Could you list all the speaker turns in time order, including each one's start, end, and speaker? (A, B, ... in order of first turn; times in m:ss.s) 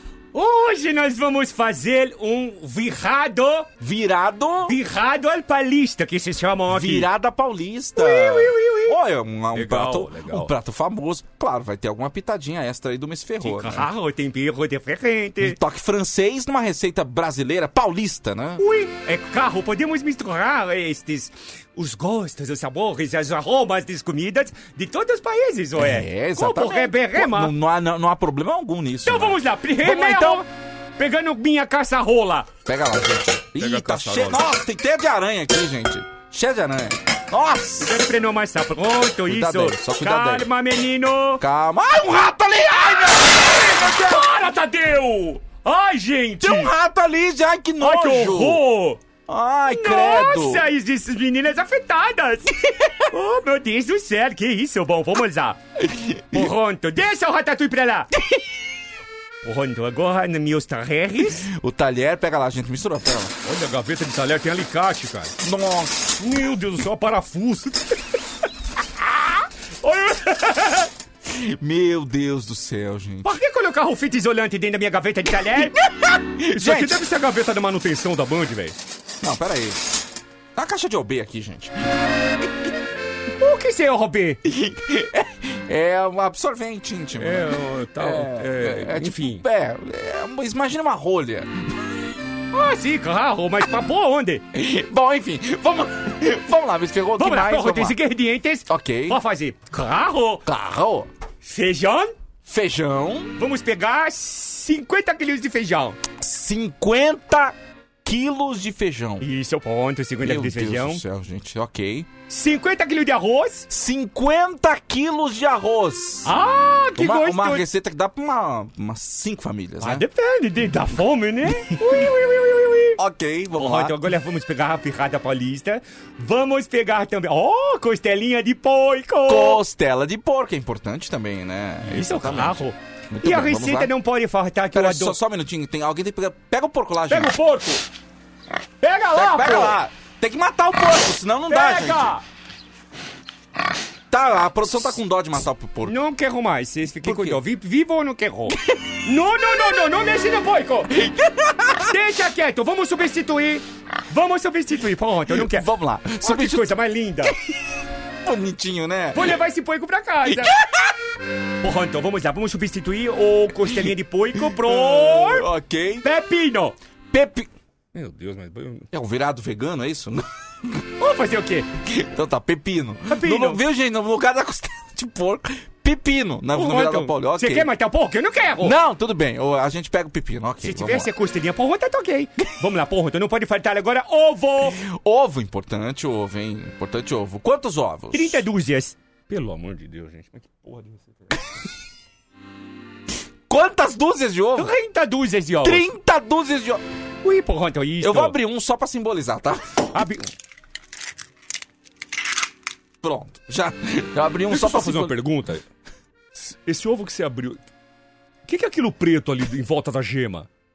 0:00.3-0:03.7 A
0:03.8-0:04.8 B
0:04.7-0:07.1 A
0:06.7-0:13.9 B
0:08.0-0:08.9 A
0:09.5-0:10.5 C
0:13.4-0:15.6 A
0:15.4-0:18.6 B
0:18.6-0:27.5 A
0:25.8-0:30.4 B
0:29.0-0:30.5 A
0:31.0-0:32.5 A
0:32.6-0:38.0 B
0:33.6-0:34.4 C
0:37.8-0:41.4 A
0:39.3-0:40.5 B
0:41.4-0:44.2 B
0:43.5-0:46.7 A
0:46.4-0:48.6 B
0:47.8-0:49.0 A
0:49.3-0:50.7 B
0:49.7-0:52.5 A
0:53.1-0:55.6 A
0:55.8-0:56.5 B
0:56.3-0:58.1 A
0:59.4-1:01.4 A
1:01.3-1:03.3 B
1:03.4-1:05.3 C
1:05.4-1:06.0 B
1:06.2-1:07.8 C
1:09.8-1:10.8 C
1:11.2-1:13.4 B
1:13.2-1:15.7 A
1:16.0-1:17.0 B
1:16.6-1:16.9 A
1:16.7-1:18.8 C
1:19.2-1:19.8 B
1:20.5-1:21.8 B
1:23.4-1:24.4 A
1:24.4-1:31.9 B
1:27.2-1:29.2 C
1:32.5-1:34.4 A
1:34.5-1:38.0 B
1:37.2-1:40.4 A
1:38.7-1:39.2 B
1:40.4-1:41.1 B
1:41.4-1:42.1 A
1:42.4-1:43.3 B
1:43.4-1:46.0 A
1:46.2-1:49.3 B
1:49.2-1:51.0 A
1:50.2-1:52.1 B
1:52.3-1:53.7 A
1:53.7-1:56.3 B
1:56.2-1:57.6 A
1:57.0-2:00.0 B
1:59.8-2:03.0 A
2:03.0-2:04.0 B
2:03.5-2:09.6 A
2:09.2-2:13.9 B
2:11.9-2:15.2 A
2:14.7-2:17.4 B
2:17.1-2:17.8 A
2:18.8-2:19.8 A
2:19.1-2:22.1 B
2:21.5-2:22.2 A
2:24.1-2:26.0 B
2:25.8-2:30.9 A
2:27.0-2:27.4 B
2:30.9-2:31.9 B
2:31.8-2:35.6 A
2:35.3-2:37.6 B
2:36.2-2:37.3 A
2:38.2-2:39.4 B
2:39.1-2:40.5 A
2:40.2-2:40.9 B
2:41.6-2:45.4 A
2:44.5-2:46.1 B
2:46.0-2:46.8 A
2:47.1-2:47.5 B
2:47.9-2:48.9 C
2:48.9-2:50.8 B
2:51.0-2:51.7 A
2:51.8-2:57.7 B
2:53.1-2:53.6 A
2:56.5-2:58.7 A
2:58.6-3:01.1 B
3:00.6-3:04.8 A
3:04.7-3:08.4 B
3:08.1-3:09.0 A
3:09.3-3:11.3 C
3:13.5-3:14.7 B
3:14.6-3:15.9 A
3:15.6-3:16.8 B
3:17.2-3:18.4 A
3:18.0-3:19.8 B
3:19.9-3:20.3 A
3:23.0-3:25.2 B
3:24.5-3:25.6 C
3:26.3-3:27.6 C
3:28.5-3:30.5 C